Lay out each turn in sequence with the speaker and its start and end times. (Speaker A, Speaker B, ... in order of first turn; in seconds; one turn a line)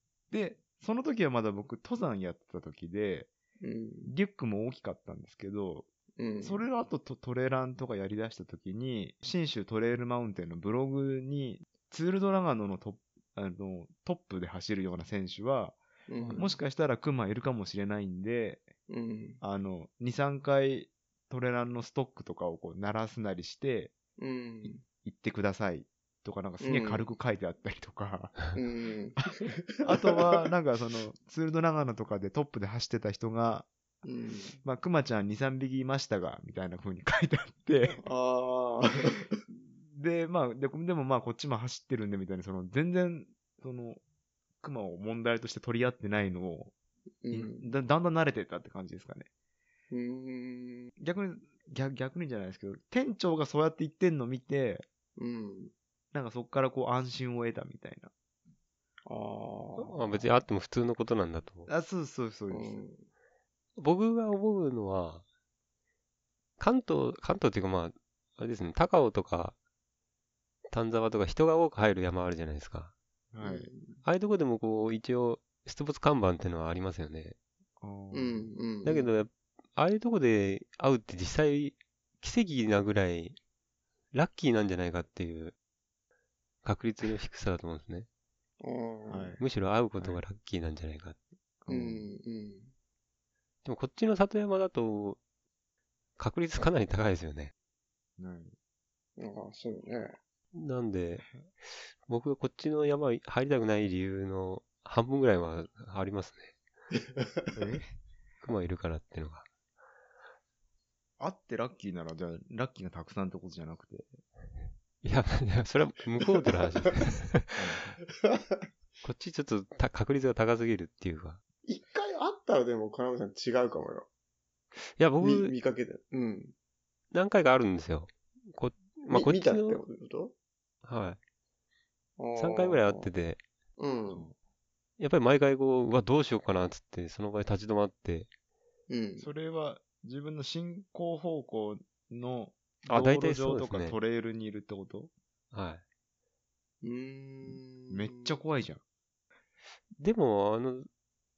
Speaker A: 0.3-3.3
Speaker B: 3.6-4.1
Speaker A: 4.0-5.9
Speaker B: 6.2-6.6
Speaker A: 6.4-18.7
Speaker B: 16.1-16.6
Speaker B: 18.9-19.4
Speaker A: 19.4-23.9
Speaker B: 24.2-24.8
Speaker A: 25.0-28.5
Speaker B: 26.6-27.1
Speaker B: 28.5-30.4
Speaker A: 29.8-33.7
Speaker B: 34.0-34.6
Speaker A: 34.6-38.0
Speaker B: 38.0-39.3
Speaker A: 39.5-44.0
Speaker A: 44.6-46.7
Speaker B: 47.2-47.7
Speaker A: 47.3-49.3
Speaker B: 49.9-50.9
Speaker A: 51.0-54.8
Speaker B: 55.2-55.7
Speaker A: 56.1-58.1
Speaker B: 59.1-60.1
Speaker C: 59.8-61.7
Speaker A: 61.7-62.8
Speaker B: 62.5-63.0
Speaker C: 63.8-65.2
Speaker C: 66.6-69.6
Speaker C: 70.7-73.0
Speaker A: 73.3-73.7
Speaker B: 73.4-74.0
Speaker C: 74.0-77.4
Speaker A: 77.8-78.5
Speaker B: 78.1-79.1
Speaker C: 78.8-83.4
Speaker C: 84.1-85.5
Speaker C: 86.6-88.1
Speaker B: 88.6-89.3
Speaker A: 89.1-89.4
Speaker C: 89.4-91.2
Speaker A: 90.0-90.2
Speaker A: 91.6-92.1
Speaker B: 91.7-92.7
Speaker C: 93.7-95.2
Speaker C: 96.2-97.5
Speaker A: 98.2-98.5
Speaker B: 99.2-100.2
Speaker C: 100.5-106.5
Speaker A: 107.5-107.9
Speaker C: 108.4-109.5
Speaker A: 111.2-114.1
Speaker C: 115.0-117.6
Speaker A: 117.5-118.0
Speaker B: 118.2-118.6
Speaker C: 119.0-121.4
Speaker B: 121.7-124.1
Speaker C: 125.0-125.5
Speaker B: 125.2-126.5
Speaker C: 127.1-129.8
Speaker B: 129.1-130.3
Speaker C: 130.8-131.2
Speaker B: 132.2-133.1
Speaker C: 132.4-133.4
Speaker B: 133.8-134.3
Speaker A: 134.1-134.3
Speaker C: 135.0-138.3
Speaker B: 138.9-139.3
Speaker A: 139.2-145.1
Speaker C: 142.9-144.0
Speaker C: 145.5-145.8
Speaker B: 146.8-148.4
Speaker A: 147.9-148.8
Speaker C: 150.0-150.9